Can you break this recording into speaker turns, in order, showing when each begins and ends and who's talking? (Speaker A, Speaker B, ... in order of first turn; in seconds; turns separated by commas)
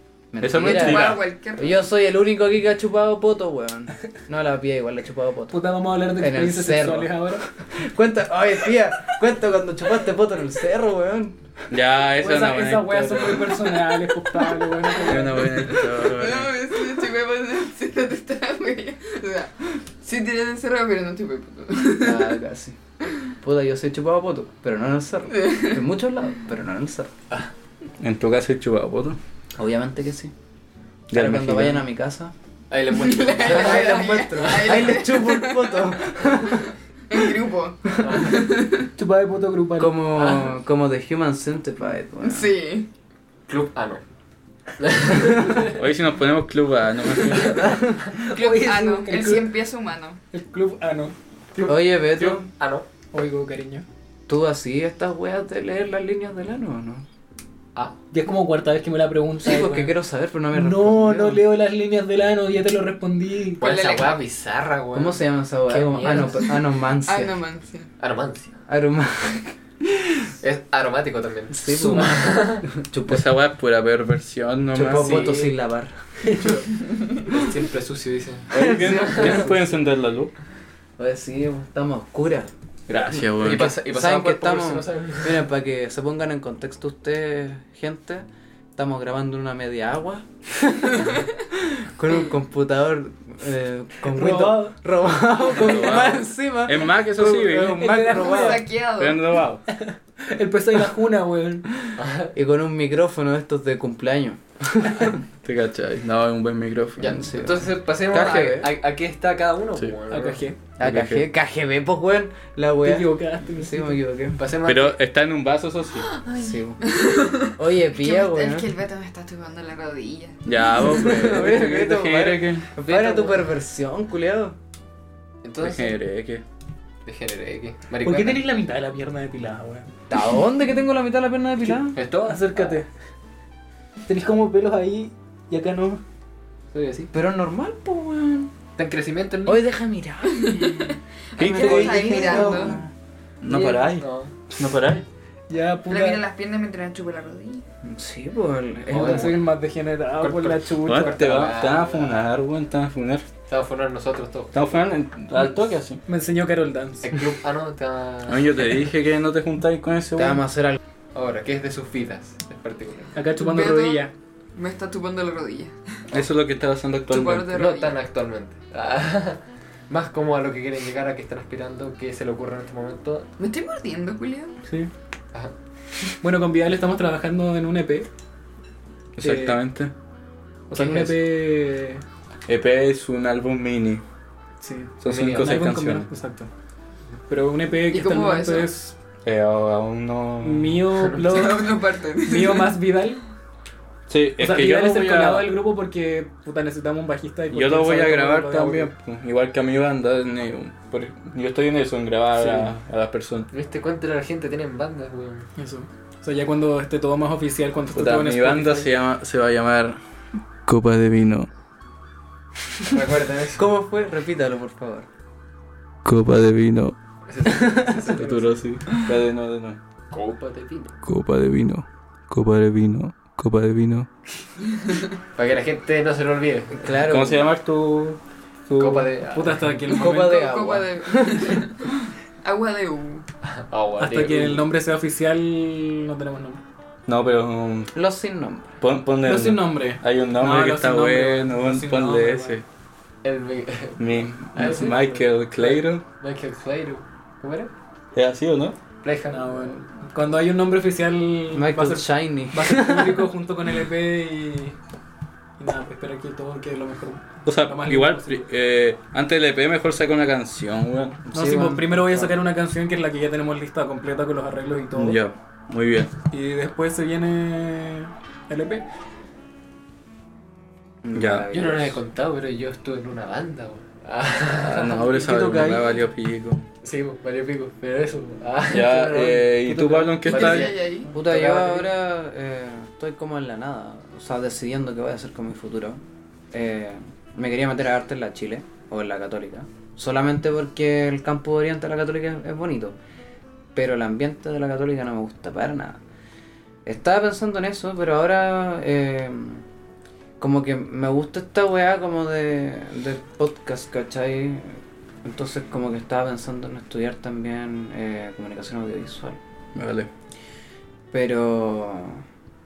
Speaker A: 0.3-5.6, Speaker B: 0.4-1.2, Speaker C: 0.6-1.8, Speaker D: 5.5-7.5, Speaker A: 6.1-11.5, Speaker B: 11.7-13.8, Speaker D: 12.2-15.7, Speaker B: 15.0-16.5, Speaker C: 15.7-22.3, Speaker A: 22.0-22.8, Speaker A: 23.4-27.1, Speaker C: 25.4-25.8, Speaker B: 28.0-29.2, Speaker A: 29.6-30.3, Speaker B: 31.1-31.8, Speaker A: 31.1-32.3, Speaker E: 32.7-35.0, Speaker C: 32.9-38.9, Speaker A: 33.4-36.7, Speaker E: 38.0-38.4, Speaker D: 39.0-40.0, Speaker A: 39.8-42.5, Speaker E: 40.1-40.5, Speaker C: 42.2-42.9, Speaker E: 43.5-44.0, Speaker E: 44.8-45.7, Speaker B: 45.6-47.7, Speaker E: 47.3-47.6, Speaker A: 47.5-48.1, Speaker D: 48.2-49.5, Speaker C: 48.2-50.2, Speaker D: 50.3-51.1, Speaker E: 51.5-52.9, Speaker A: 51.6-52.5, Speaker D: 53.1-53.8, Speaker A: 54.3-57.0, Speaker D: 58.1-60.0, Speaker A: 59.4-61.4, Speaker D: 60.5-63.6, Speaker C: 63.6-64.2, Speaker E: 63.6-66.5, Speaker A: 64.9-67.3, Speaker C: 67.0-67.9, Speaker E: 68.0-68.5, Speaker A: 68.7-69.5, Speaker E: 70.4-72.6, Speaker A: 71.5-73.2, Speaker D: 71.7-72.2, Speaker B: 73.1-75.3, Speaker A: 74.7-76.3, Speaker E: 74.9-75.5, Speaker D: 76.2-76.6, Speaker E: 77.3-79.5, Speaker B: 78.5-80.3, Speaker A: 78.6-79.5, Speaker A: 81.0-82.5, Speaker B: 82.9-83.8, Speaker E: 82.9-85.4, Speaker A: 83.8-98.7, Speaker D: 94.1-94.8, Speaker B: 95.5-98.0, Speaker D: 97.2-98.7, Speaker C: 98.1-99.4, Speaker B: 98.9-99.6, Speaker D: 99.7-101.7, Speaker E: 102.0-102.3, Speaker A: 102.3-105.2, Speaker B: 105.4-107.3, Speaker E: 107.0-110.4, Speaker A: 107.0-108.7, Speaker D: 110.1-110.6, Speaker A: 110.8-114.4, Speaker B: 110.8-111.2, Speaker D: 112.8-114.0, Speaker E: 114.4-115.0, Speaker B: 114.6-116.1, Speaker C: 116.2-121.2, Speaker A: 116.3-116.8, Speaker A: 117.5-118.7, Speaker B: 120.5-122.7, Speaker A: 120.8-124.5, Speaker E: 122.8-123.4, Speaker E: 125.4-126.0, Speaker B: 125.6-126.4, Speaker E: 127.0-128.4, Speaker D: 128.0-129.9, Speaker A: 130.1-132.0, Speaker E: 131.9-132.8, Speaker D: 132.2-132.9, Speaker D: 134.1-136.0, Speaker E: 136.7-137.1, Speaker A: 137.1-138.5, Speaker E: 138.8-139.7, Speaker A: 139.4-142.9, Speaker C: 140.3-142.8, Speaker B: 141.4-142.8, Speaker B: 143.4-145.0, Speaker E: 143.5-144.3, Speaker D: 145.5-146.2, Speaker C: 145.9-147.7, Speaker A: 147.8-149.3, Speaker D: 148.9-151.2, Speaker E: 148.9-149.4, Speaker E: 150.2-152.3, Speaker B: 150.8-153.3, Speaker E: 153.5-154.6, Speaker B: 154.5-156.0, Speaker D: 156.0-157.1, Speaker E: 157.0-158.8, Speaker B: 158.2-160.4, Speaker A: 160.2-160.8, Speaker E: 161.1-163.2, Speaker D: 163.1-164.1, Speaker C: 163.4-166.1, Speaker B: 166.1-167.5, Speaker C: 167.1-168.0, Speaker E: 167.5-173.3, Speaker C: 173.4-174.5, Speaker D: 176.2-178.1, Speaker B: 179.2-179.9, Speaker D: 179.2-179.6, Speaker D: 180.7-182.0, Speaker B: 182.5-184.0, Speaker D: 184.6-186.5, Speaker B: 185.0-186.1, Speaker E: 185.1-185.6, Speaker D: 187.3-188.9, Speaker C: 187.9-188.7, Speaker B: 189.2-190.9, Speaker D: 190.4-193.2, Speaker C: 191.2-192.8, Speaker B: 194.1-195.5, Speaker D: 194.4-198.9, Speaker B: 197.5-203.5, Speaker D: 202.3-202.7, Speaker E: 203.5-205.5, Speaker D: 205.6-208.9, Speaker B: 207.9-210.0, Speaker B: 210.7-211.5, Speaker E: 212.8-213.7, Speaker A: 213.5-215.1, Speaker B: 216.0-216.9, Speaker E: 217.3-218.6, Speaker B: 218.0-219.8, Speaker E: 220.1-220.9, Speaker B: 221.0-224.1, Speaker C: 224.8-225.0, Speaker E: 225.3-226.9, Speaker A: 226.8-227.5, Speaker B: 227.0-229.1, Speaker E: 228.8-229.8, Speaker D: 229.3-230.4, Speaker A: 229.9-231.7, Speaker C: 230.1-233.2, Speaker E: 233.4-234.7, Speaker D: 234.0-236.6, Speaker B: 237.1-237.9, Speaker A: 237.9-238.8, Speaker B: 238.8-242.6, Speaker D: 239.2-242.6, Speaker E: 243.2-247.7, Speaker B: 244.0-246.0, Speaker B: 248.1-248.8, Speaker E: 249.0-249.8, Speaker D: 249.3-254.8, Speaker A: 251.5-253.3, Speaker D: 255.6-258.4, Speaker B: 257.4-261.2, Speaker A: 261.2-262.3, Speaker D: 261.3-265.2, Speaker B: 264.9-266.1, Speaker D: 266.3-268.8, Speaker A: 271.0-272.0, Speaker B: 271.1-271.5, Speaker E: 271.5-275.6, Speaker B: 274.5-276.6, Speaker D: 275.2-275.9, Speaker E: 276.8-281.9, Speaker B: 278.7-280.7, Speaker C: 280.2-281.1, Speaker A: 281.1-286.0, Speaker A: 286.5-292.9, Speaker A: 293.7-296.0, Speaker A: 296.8-299.6, Speaker A: 300.4-309.4, Speaker B: 309.7-310.1, Speaker A: 311.1-312.2